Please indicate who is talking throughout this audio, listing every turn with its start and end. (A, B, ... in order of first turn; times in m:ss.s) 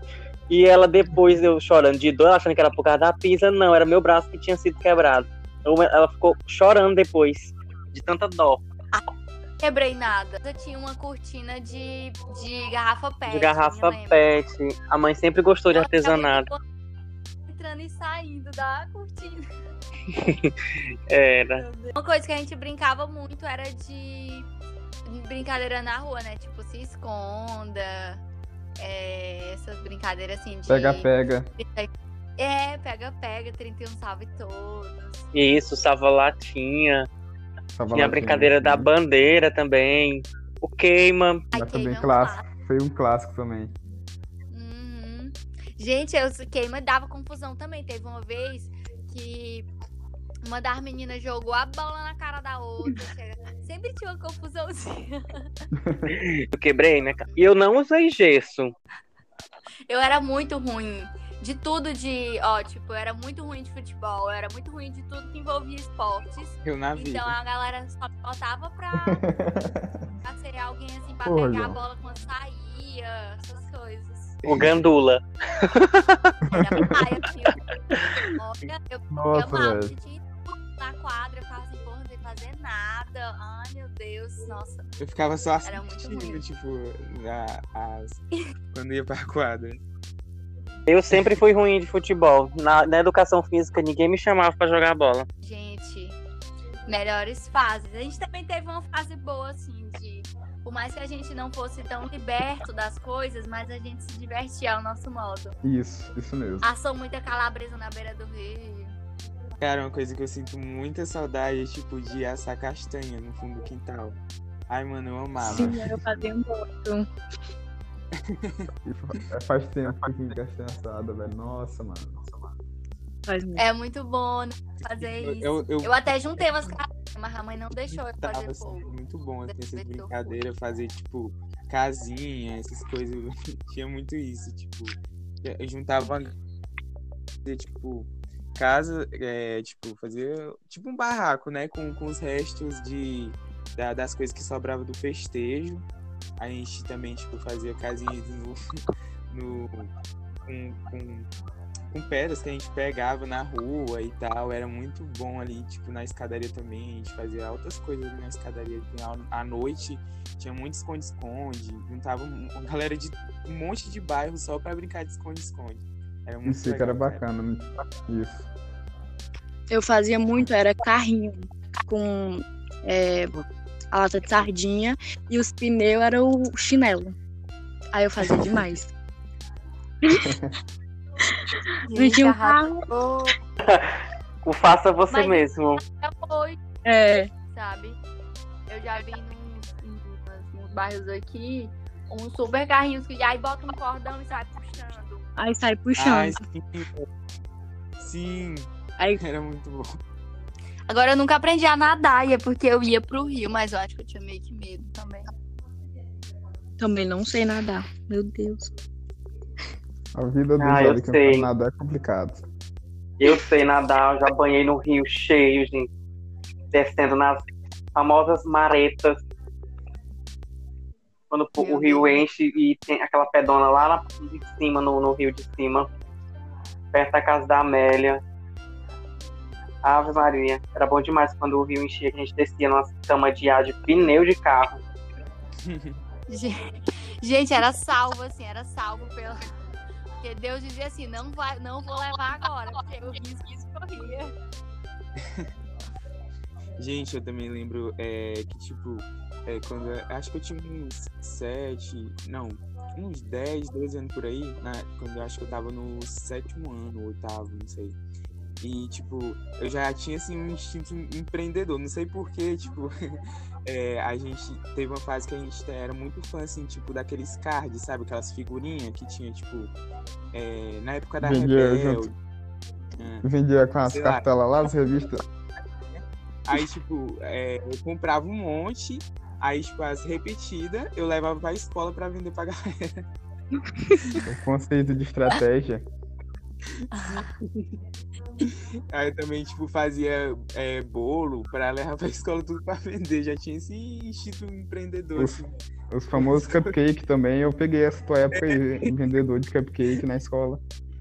0:00.5-0:08.6 A
0:09.6-0:14.2 B
0:13.3-0:16.5 A
0:15.7-0:16.6 B
0:17.5-0:19.5 B
0:20.1-0:21.6 A
0:21.6-0:24.5 B
0:25.0-0:28.2 B
0:28.8-0:35.2 B
0:30.7-0:31.5 C
0:35.3-0:37.1 A
0:37.7-0:38.9 C
0:37.9-0:41.4 A
0:41.5-0:42.4 B
0:41.5-0:43.8 C
0:44.5-0:49.7 B
0:50.4-0:55.5 B
0:55.8-0:56.1 C
0:56.1-0:58.7 A
0:59.9-1:09.2 B
1:06.6-1:07.3 D
1:09.0-1:09.9 C
1:10.2-1:14.4 B
1:11.2-1:11.8 C
1:14.4-1:16.2 A
1:16.5-1:17.6 B
1:18.3-1:24.9 B
1:19.1-1:19.9 C
1:25.0-1:29.8 D
1:25.6-1:26.4 B
1:30.9-1:35.3 A
1:35.4-1:36.2 B
1:36.9-1:45.6 B
1:45.6-1:46.7 C
1:46.6-1:48.9 B
1:49.6-1:54.2 D
1:54.7-1:56.3 D
1:55.4-1:55.8 C
1:55.4-1:57.0 E
1:58.2-1:58.7 D
1:58.8-2:02.2 C
2:00.0-2:00.3 D
2:03.3-2:03.6 E
2:03.6-2:08.9 B
2:04.9-2:06.4 D
2:08.2-2:16.4 D
2:09.5-2:10.4 B
2:17.4-2:25.8 D
2:26.4-2:28.6 D
2:29.3-2:29.9 D
2:30.4-2:31.3 D
2:31.9-2:47.2 D
2:46.4-2:48.5 C
2:49.7-2:53.3 E
2:53.9-2:57.1 E
2:57.9-2:58.9 E
3:00.0-3:00.3 E
3:00.2-3:00.5 C
3:01.8-3:03.4 B
3:01.9-3:02.8 E
3:03.6-3:03.9 A
3:04.4-3:05.8 A
3:05.1-3:06.6 B
3:06.8-3:07.3 E
3:07.5-3:08.0 B
3:08.7-3:15.3 B
3:15.4-3:16.4 E
3:16.0-3:17.0 D
3:18.0-3:19.8 D
3:20.9-3:25.2 B
3:26.8-3:28.7 E
3:30.1-3:32.4 C
3:30.6-3:31.5 A
3:33.2-3:35.9 A
3:36.7-3:37.4 A
3:37.9-3:39.2 A
3:41.3-3:45.9 A
3:41.6-3:42.2 B
3:46.9-3:48.2 A
3:49.8-3:54.8 A
3:55.6-3:56.0 D
3:56.3-3:56.5 B
3:57.2-3:59.5 B
4:00.2-4:04.3 B
4:05.2-4:05.5 D
4:06.8-4:18.0 D
4:18.6-4:29.7 D
4:30.3-4:32.1 D
4:31.2-4:32.1 C
4:33.0-4:33.3 D
4:33.2-4:35.2 C
4:33.8-4:34.2 D
4:35.9-4:43.0 D
4:44.3-4:45.9 C
4:46.8-4:47.6 D
4:46.9-4:47.3 B
4:48.4-4:55.6 D
4:55.9-5:00.6 C
4:56.1-4:56.7 D
4:58.4-4:58.9 D